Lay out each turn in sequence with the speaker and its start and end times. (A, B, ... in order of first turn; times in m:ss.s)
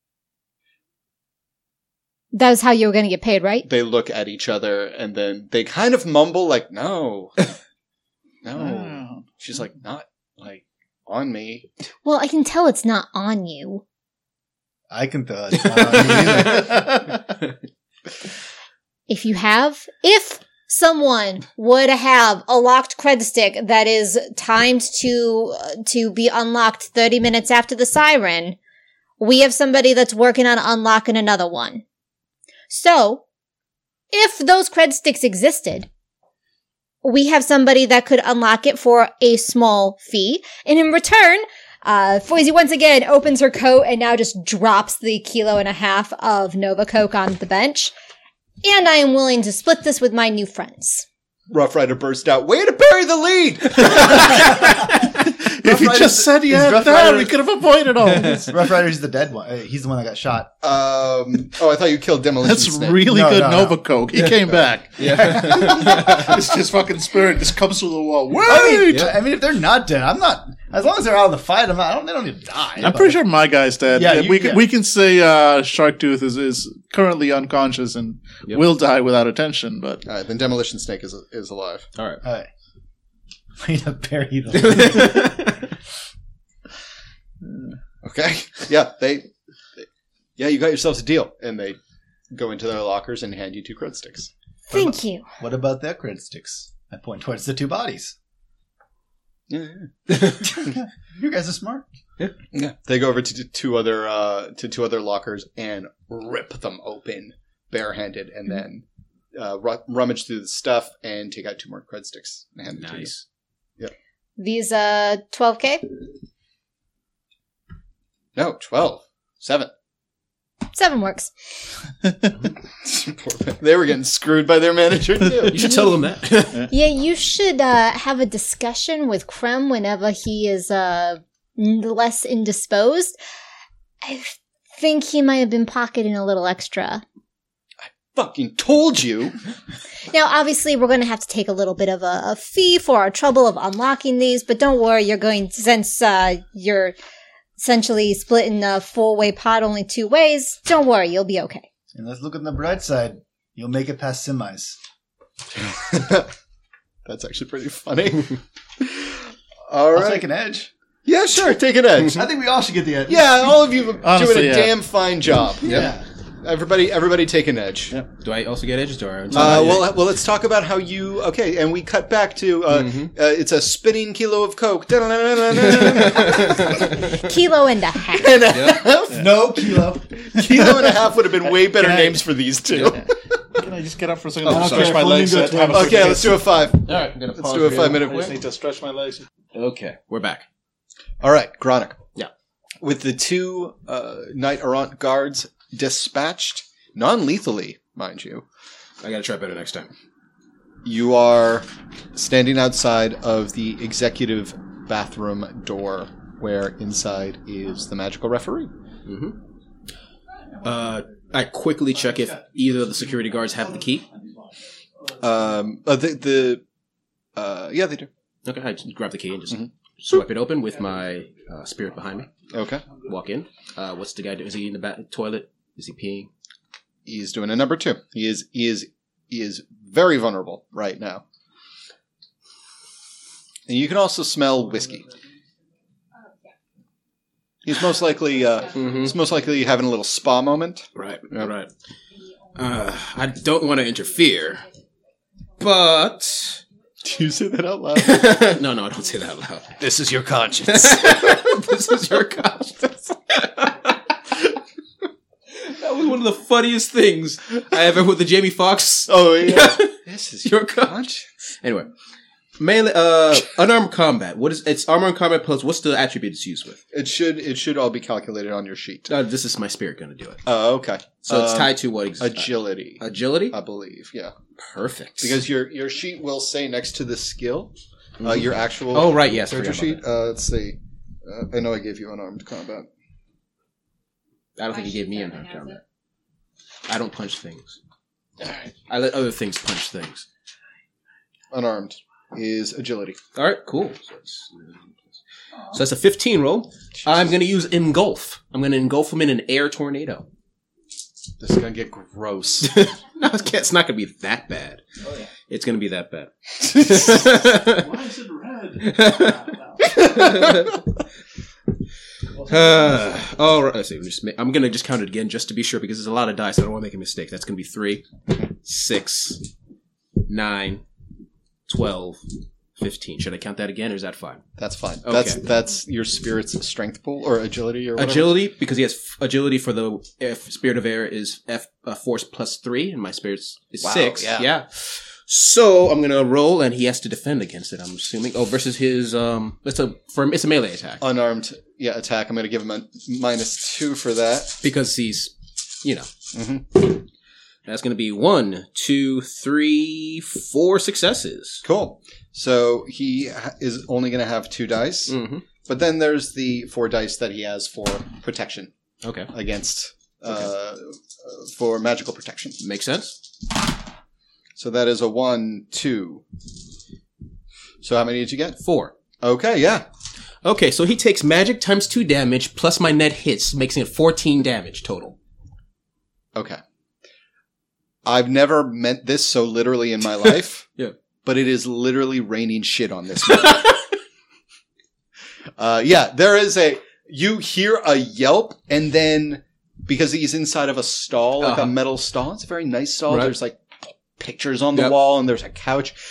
0:02.3-0:03.7 A
0:03.6-0:07.5 B
0:08.4-0:11.7 B
0:08.6-0:09.3 C
0:12.0-0:13.8 A
0:14.9-0:17.0 D
0:16.5-0:17.1 C
0:19.1-0:28.6 A
0:29.2-0:31.8 A
0:32.7-0:33.2 A
0:34.1-0:35.9 A
0:37.0-0:47.9 A
0:48.6-0:51.0 A
0:51.5-0:54.7 B
0:54.2-0:58.5 C
0:54.5-0:54.8 D
0:55.6-0:57.3 D
0:58.4-1:00.5 D
1:00.6-1:03.0 B
1:02.4-1:09.1 C
1:03.0-1:03.8 D
1:05.0-1:06.3 E
1:08.4-1:13.2 D
1:12.8-1:20.0 C
1:13.9-1:14.6 D
1:20.0-1:21.9 B
1:22.0-1:22.2 E
1:22.2-1:22.5 D
1:23.6-1:25.5 D
1:24.5-1:25.7 E
1:27.4-1:27.8 C
1:28.0-1:29.3 B
1:30.4-1:31.8 B
1:32.3-1:34.3 B
1:34.7-1:35.3 A
1:34.7-1:38.1 D
1:39.5-1:40.5 B
1:40.4-1:41.8 D
1:42.5-1:53.1 B
1:52.8-1:53.2 E
1:54.4-1:55.9 A
1:58.4-1:59.7 B
2:00.7-2:01.3 A
2:02.0-2:02.3 C
2:02.8-2:05.7 B
2:05.5-2:06.6 E
2:06.7-2:13.2 A
2:14.0-2:17.0 A
2:18.1-2:19.4 B
2:20.1-2:26.9 A
2:27.6-2:31.6 A
2:31.9-2:34.8 D
2:35.5-2:36.3 B
2:37.0-2:40.2 B
2:39.9-2:40.7 D
2:41.0-2:42.3 B
2:42.0-2:43.5 D
2:43.1-2:48.0 B
2:44.0-2:44.8 C
2:45.6-2:45.9 E
2:45.6-2:46.0 D
2:48.2-2:49.9 E
2:49.3-2:49.8 C
2:49.3-2:57.1 B
2:52.7-2:53.1 E
2:55.5-2:57.2 E
2:56.9-2:58.4 A
2:58.1-3:03.0 B
2:58.5-2:58.8 E
2:59.1-3:00.3 D
3:00.6-3:00.9 C
3:01.6-3:02.2 C
3:02.8-3:06.4 C
3:04.4-3:05.1 E
3:04.4-3:06.3 D
3:05.7-3:08.2 B
3:06.8-3:08.3 E
3:07.6-3:09.2 C
3:09.5-3:10.4 E
3:11.2-3:12.0 B
3:12.8-3:18.4 B
3:19.0-3:19.9 E
3:20.8-3:28.7 B
3:29.0-3:29.4 E
3:30.6-3:34.0 E
3:35.2-3:36.6 B
3:37.4-3:38.1 B
3:38.4-3:42.3 E
3:42.5-3:42.8 B
3:43.0-3:46.3 E
3:47.0-3:51.2 B
3:53.7-3:55.1 B
3:57.6-4:01.5 B
3:58.7-3:59.1 E
4:00.9-4:01.7 E
4:02.5-4:04.7 E
4:05.6-4:06.6 E
4:07.0-4:08.6 B
4:08.0-4:09.8 E
4:09.8-4:11.5 B
4:10.6-4:13.9 E
4:15.6-4:21.0 E
4:19.1-4:21.3 B
4:21.6-4:21.9 E
4:22.6-4:26.8 E
4:26.9-4:29.1 B
4:29.1-4:30.4 E
4:30.4-4:34.3 B
4:31.2-4:33.6 E
4:34.6-4:35.4 E
4:35.2-4:42.9 B
4:38.2-4:40.0 E
4:44.6-4:45.8 E
4:46.9-4:47.8 E
4:48.4-4:50.3 E
4:51.5-4:53.2 B
4:53.3-4:54.9 E
4:55.7-5:00.3 E
5:01.4-5:02.8 B
5:02.6-5:04.8 E
5:05.5-5:07.9 E
5:07.6-5:09.9 C
5:08.8-5:10.8 E
5:12.4-5:12.8 C
5:12.4-5:19.5 E
5:20.2-5:20.8 E
5:21.7-5:24.4 E
5:24.6-5:28.3 B
5:25.0-5:25.4 E
5:28.0-5:41.0 E
5:33.8-5:34.5 B
5:41.0-5:44.6 B
5:44.6-5:46.1 E
5:46.3-5:46.8 B
5:47.6-5:51.6 E
5:51.6-5:58.7 B
5:55.1-5:55.4 E
5:59.0-5:59.3 E
5:59.3-6:02.6 B
6:02.6-6:03.2 E
6:04.6-6:06.2 B
6:07.8-6:08.6 B
6:08.6-6:08.9 E
6:09.2-6:09.8 B
6:10.4-6:15.2 E
6:16.3-6:16.6 B
6:18.0-6:20.7 B
6:21.2-6:23.8 B
6:25.6-6:36.0 B
6:31.4-6:31.7 E